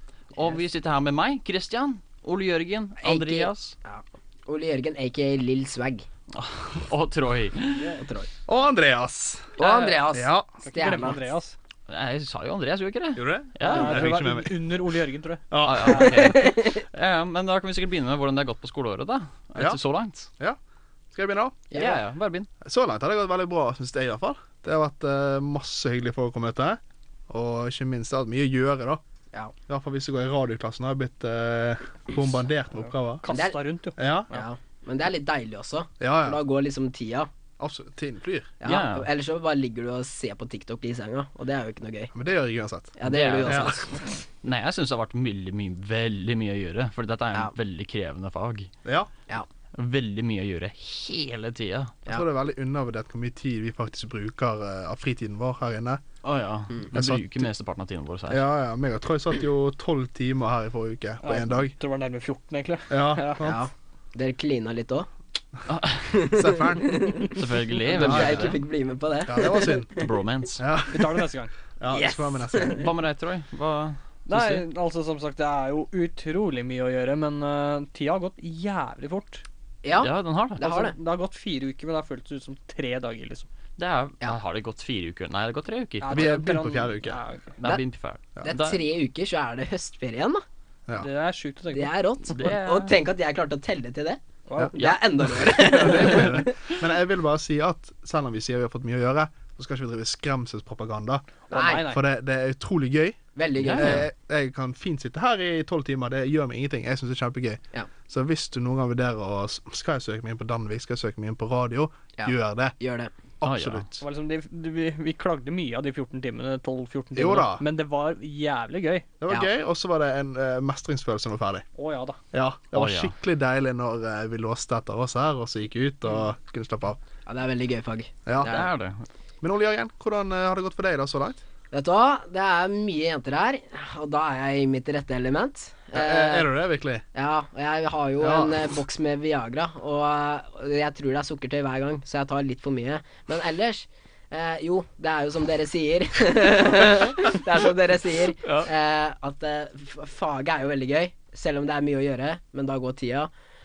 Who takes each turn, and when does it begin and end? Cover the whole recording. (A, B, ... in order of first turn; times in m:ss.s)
0:00.3-0:03.7 A
0:03.0-0:06.0 B
0:06.3-0:07.9 A
0:07.7-0:08.3 B
0:08.4-0:09.6 C
0:09.6-0:10.0 A
0:09.6-0:11.2 B
0:10.1-0:10.5 C
0:10.6-0:11.6 D
0:11.9-0:14.2 A
0:13.2-0:14.7 C
0:13.6-0:16.1 D
0:15.5-0:16.1 C
0:15.6-0:20.3 A
0:16.1-0:16.8 B
0:21.1-0:21.6 C
0:21.7-0:22.0 B
0:21.7-0:22.5 A
0:22.6-0:29.0 C
0:29.7-0:33.2 C
0:33.2-0:34.5 D
0:33.3-0:33.6 B
0:34.0-0:34.3 C
0:34.3-0:37.3 B
0:36.0-0:36.4 C
0:37.6-0:38.5 C
0:38.6-0:42.1 B
0:38.6-0:39.1 A
0:42.1-0:43.8 C
0:43.0-0:44.0 B
0:43.0-0:43.8 A
0:44.4-0:48.7 A
0:48.8-0:49.1 C
0:49.7-0:51.9 A
0:52.0-0:56.0 C
0:56.2-0:58.4 A
0:56.9-0:57.5 C
0:58.3-1:01.7 C
1:01.2-1:03.5 D
1:02.9-1:03.6 C
1:03.4-1:05.1 B
1:05.7-1:06.1 A
1:06.1-1:10.1 B
1:06.2-1:07.2 C
1:07.3-1:08.6 A
1:08.0-1:08.6 C
1:09.2-1:10.0 C
1:09.9-1:10.6 A
1:10.6-1:11.3 C
1:10.9-1:11.5 D
1:11.8-1:12.9 C
1:11.9-1:12.9 B
1:12.7-1:14.6 A
1:14.3-1:19.4 D
1:19.8-1:20.9 B
1:19.9-1:20.7 A
1:20.6-1:23.5 D
1:23.8-1:26.3 A
1:26.0-1:27.5 D
1:26.1-1:27.2 C
1:27.6-1:28.8 A
1:28.4-1:30.4 B
1:30.9-1:31.9 D
1:31.7-1:34.2 B
1:32.3-1:32.9 A
1:34.5-1:34.7 D
1:34.7-1:36.6 B
1:34.7-1:35.0 A
1:35.2-1:52.8 C
1:35.8-1:36.1 A
1:41.5-1:42.0 D
1:41.5-1:41.9 B
1:43.4-1:44.0 B
1:43.6-1:44.1 A
1:52.2-1:53.1 B
1:53.4-1:54.0 C
1:53.4-1:53.8 A
1:54.0-1:59.1 D
1:57.1-1:57.6 C
1:59.2-2:01.6 C
2:01.8-2:02.2 D
2:02.3-2:07.0 C
2:02.7-2:03.1 A
2:07.2-2:08.7 B
2:08.2-2:08.6 C
2:08.4-2:09.0 A
2:09.4-2:11.4 C
2:11.7-2:16.5 B
2:15.9-2:17.0 C
2:17.1-2:33.3 B
2:18.2-2:18.5 C